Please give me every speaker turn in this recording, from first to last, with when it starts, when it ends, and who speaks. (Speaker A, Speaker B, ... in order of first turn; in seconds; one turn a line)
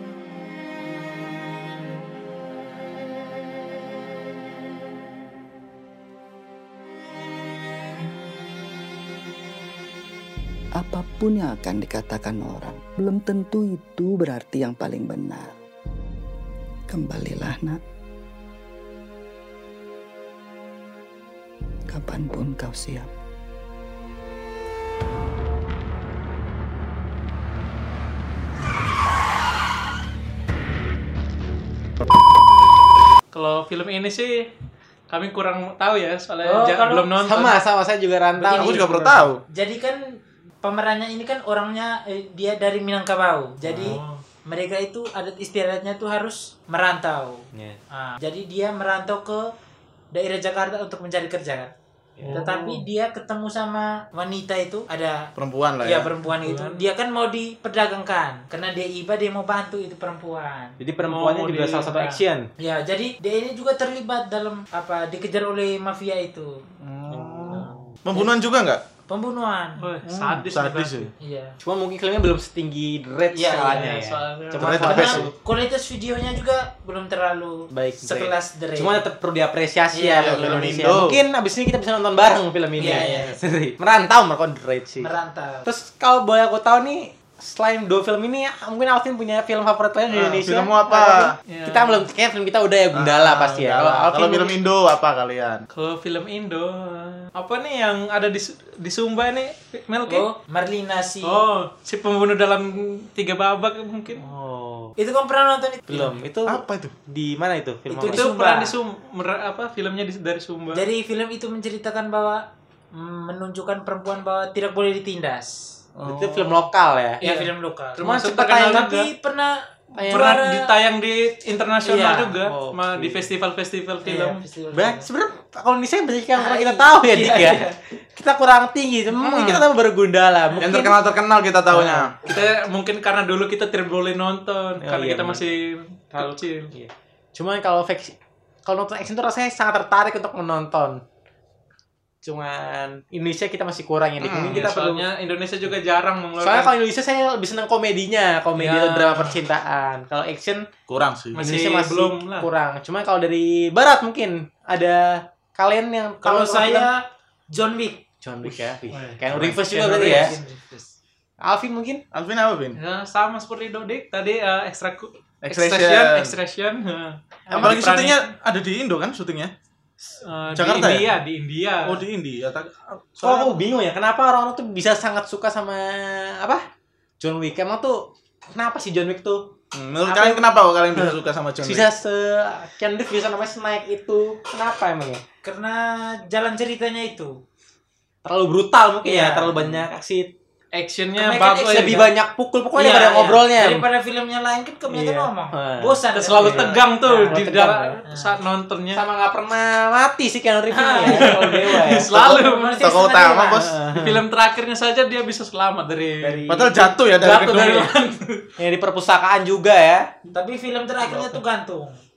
Speaker A: 10.8-15.5
Speaker A: 16.9-17.8
Speaker A: 21.9-23.1
Speaker B: 33.3-34.5
Speaker B: 35.1-37.6
Speaker C: 36.4-37.1
Speaker D: 37.2-39.3
Speaker C: 38.4-38.9
Speaker E: 38.5-39.4
Speaker C: 39.5-40.0
Speaker C: 40.6-49.5
Speaker D: 43.6-44.0
Speaker B: 43.8-44.2
Speaker D: 47.5-47.8
Speaker C: 50.1-51.7
Speaker D: 52.2-52.7
Speaker C: 52.3-60.8
Speaker E: 55.4-56.1
Speaker B: 56.3-56.8
Speaker D: 60.8-62.5
Speaker B: 61.0-62.2
Speaker C: 62.6-66.5
Speaker E: 66.8-68.8
Speaker D: 67.1-67.8
Speaker C: 69.1-69.8
Speaker B: 69.8-71.1
Speaker E: 70.0-71.1
Speaker C: 71.2-71.6
Speaker D: 71.6-75.3
Speaker C: 73.3-74.2
Speaker B: 73.7-75.3
Speaker E: 74.6-75.2
Speaker C: 74.8-79.1
Speaker D: 77.7-85.1
Speaker C: 79.9-81.0
Speaker E: 80.2-81.2
Speaker C: 82.8-83.4
Speaker C: 85.0-85.7
Speaker D: 85.7-94.6
Speaker E: 90.1-91.4
Speaker B: 91.5-92.1
Speaker E: 92.9-95.7
Speaker B: 95.7-100.3
Speaker C: 100.1-101.4
Speaker B: 101.2-104.2
Speaker D: 104.2-104.9
Speaker C: 105.0-106.2
Speaker D: 105.9-108.3
Speaker E: 106.5-107.0
Speaker C: 107.9-108.8
Speaker B: 108.0-110.8
Speaker C: 110.7-115.6
Speaker E: 116.0-116.7
Speaker D: 116.0-117.2
Speaker B: 117.2-119.1
Speaker C: 117.2-120.6
Speaker D: 118.0-118.9
Speaker D: 120.0-120.4
Speaker B: 120.0-124.4
Speaker C: 121.8-122.3
Speaker D: 122.4-123.3
Speaker C: 124.0-125.1
Speaker D: 124.7-131.0
Speaker C: 126.3-127.7
Speaker E: 129.2-129.6
Speaker E: 130.6-132.1
Speaker D: 131.7-132.1
Speaker B: 132.2-136.7
Speaker D: 134.8-135.5
Speaker D: 136.2-141.0
Speaker D: 142.2-145.1
Speaker E: 144.2-144.6
Speaker B: 144.4-146.7
Speaker D: 146.4-150.7
Speaker B: 148.6-149.4
Speaker E: 150.9-151.5
Speaker B: 151.3-152.5
Speaker D: 151.4-156.9
Speaker C: 156.2-158.0
Speaker D: 158.2-160.3
Speaker B: 158.9-159.2
Speaker C: 159.4-160.9
Speaker B: 159.8-160.3
Speaker D: 161.4-162.0
Speaker E: 162.1-162.8
Speaker B: 162.8-168.3
Speaker E: 165.4-166.3
Speaker D: 167.5-167.8
Speaker E: 167.5-169.5
Speaker B: 170.2-172.0
Speaker E: 170.5-171.1
Speaker E: 171.8-173.6
Speaker D: 173.2-176.6
Speaker D: 177.2-179.5
Speaker E: 179.7-181.9
Speaker D: 180.1-185.2
Speaker C: 185.4-187.4
Speaker D: 188.2-190.3
Speaker C: 189.1-189.8
Speaker B: 190.7-192.1
Speaker D: 191.2-193.9
Speaker C: 192.8-197.4
Speaker D: 194.9-198.0
Speaker B: 196.2-199.1
Speaker C: 198.1-198.3
Speaker D: 198.9-202.1
Speaker C: 200.7-203.6
Speaker B: 201.0-202.8
Speaker E: 202.8-203.8
Speaker D: 202.9-204.2
Speaker B: 203.9-206.5
Speaker D: 206.2-206.9
Speaker E: 206.5-207.9
Speaker B: 207.2-208.5
Speaker C: 207.3-207.9
Speaker D: 208.6-210.1
Speaker C: 210.3-212.0